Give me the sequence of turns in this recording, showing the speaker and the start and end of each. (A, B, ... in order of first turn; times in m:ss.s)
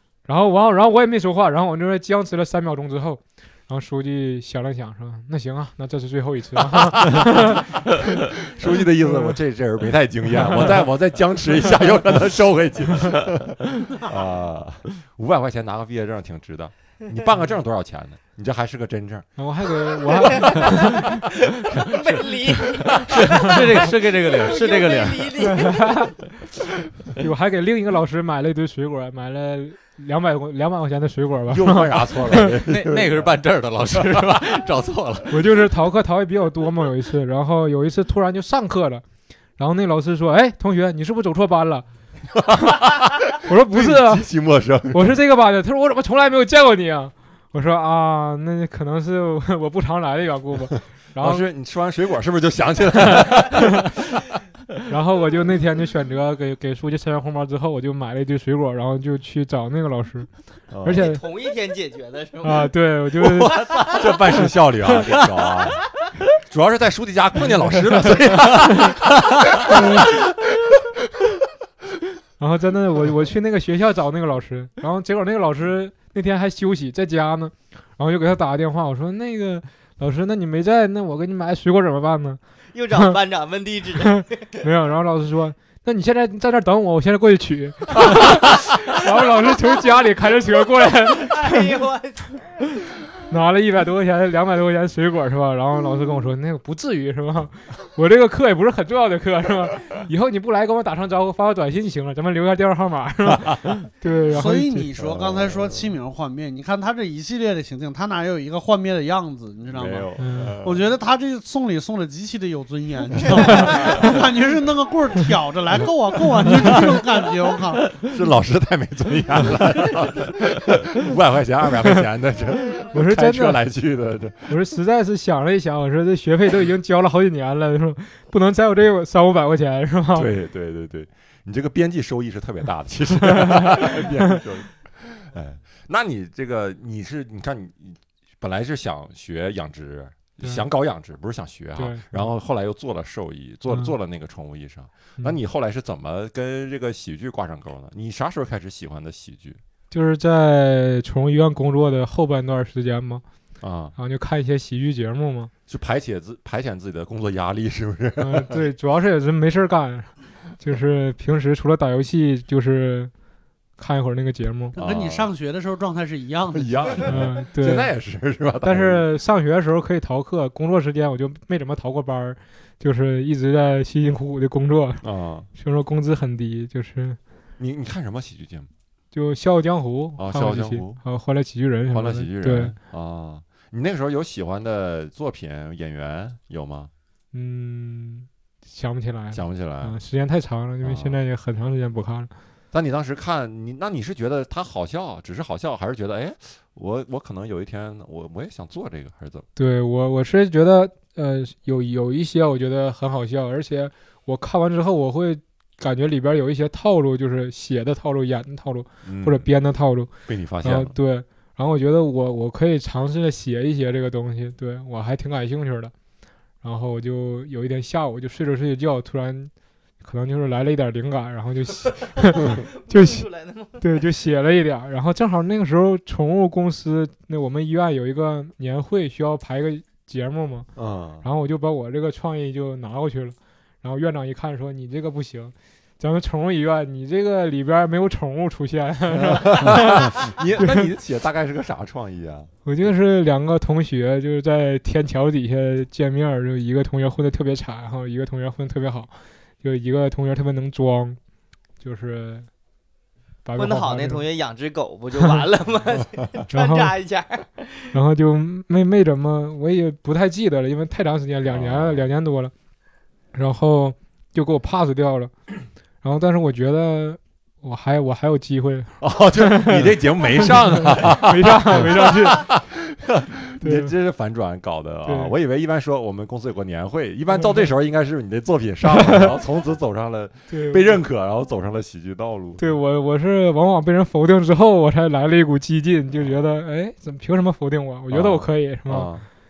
0:00.3-0:07.9 A
0:06.7-0:19.3 B
0:09.0-0:09.4 A
0:19.4-0:21.2 A
0:20.2-0:26.0 C
0:23.0-0:25.6 D
0:25.6-0:26.1 A
0:27.2-0:32.6 A
0:31.5-0:33.3 B
0:32.6-0:35.4 D
0:34.0-0:34.3 B
0:35.3-0:39.0 A
0:39.6-0:41.9 A
0:42.4-0:45.1 B
0:43.4-0:44.3 A
0:44.9-0:51.4 A
0:51.2-0:53.9 B
0:53.2-0:53.7 A
0:54.9-1:00.3 A
1:00.7-1:01.2 B
1:00.8-1:01.2 A
1:00.9-1:02.7 C
1:02.4-1:03.7 A
1:03.3-1:04.1 C
1:03.7-1:05.8 B
1:06.4-1:09.8 B
1:09.7-1:10.1 A
1:12.4-1:22.4 A
1:22.7-1:24.4 C
1:24.0-1:31.7 A
1:31.0-1:32.4 C
1:33.3-1:44.9 A
1:44.3-1:50.1 E
1:45.0-1:45.9 B
1:49.7-1:50.9 B
1:50.2-1:50.6 A
1:50.6-1:57.9 E
1:53.2-1:54.1 B
1:53.7-1:54.1 A
1:56.4-1:56.9 B
1:58.0-2:04.6 B
2:02.9-2:03.6 A
2:04.5-2:10.3 A
2:10.1-2:29.6 B
2:13.3-2:14.1 A
2:21.8-2:22.2 A
2:29.9-2:33.2 A
2:33.6-2:34.0 B
2:34.0-2:35.5 A
2:35.7-2:38.6 B
2:38.2-2:43.1 A
2:43.8-2:44.8 A
2:44.7-2:45.3 B
2:44.7-2:47.1 E
2:46.5-2:49.0 B
2:47.1-2:47.9 A
2:48.6-2:57.2 A
2:55.0-2:55.5 B
2:57.6-2:58.7 B
2:59.1-3:02.8 A
3:00.2-3:01.0 B
3:01.9-3:06.9 B
3:07.3-3:12.3 A
3:09.3-3:10.0 B
3:10.8-3:11.2 B
3:12.7-3:19.5 B
3:19.6-3:30.1 A
3:29.0-3:29.5 B
3:30.2-3:30.9 B
3:30.6-3:35.9 A
3:36.6-3:39.5 A
3:40.0-3:50.7 A
3:42.3-3:43.8 C
3:50.8-3:51.2 B
3:51.2-4:00.9 A
3:59.1-4:02.5 B
4:02.6-4:09.1 A
4:09.6-4:11.2 A
4:11.8-4:12.5 A
4:13.4-4:14.2 A
4:13.6-4:17.9 C
4:16.5-4:16.9 A
4:17.9-4:22.5 A
4:21.5-4:22.0 B
4:23.3-4:25.3 A
4:26.0-4:32.5 A
4:29.0-4:42.6 B
4:33.6-4:33.9 A
4:35.0-4:35.3 A
4:38.9-4:39.3 A
4:40.5-4:41.0 A
4:42.6-4:49.1 A
4:48.1-4:49.3 B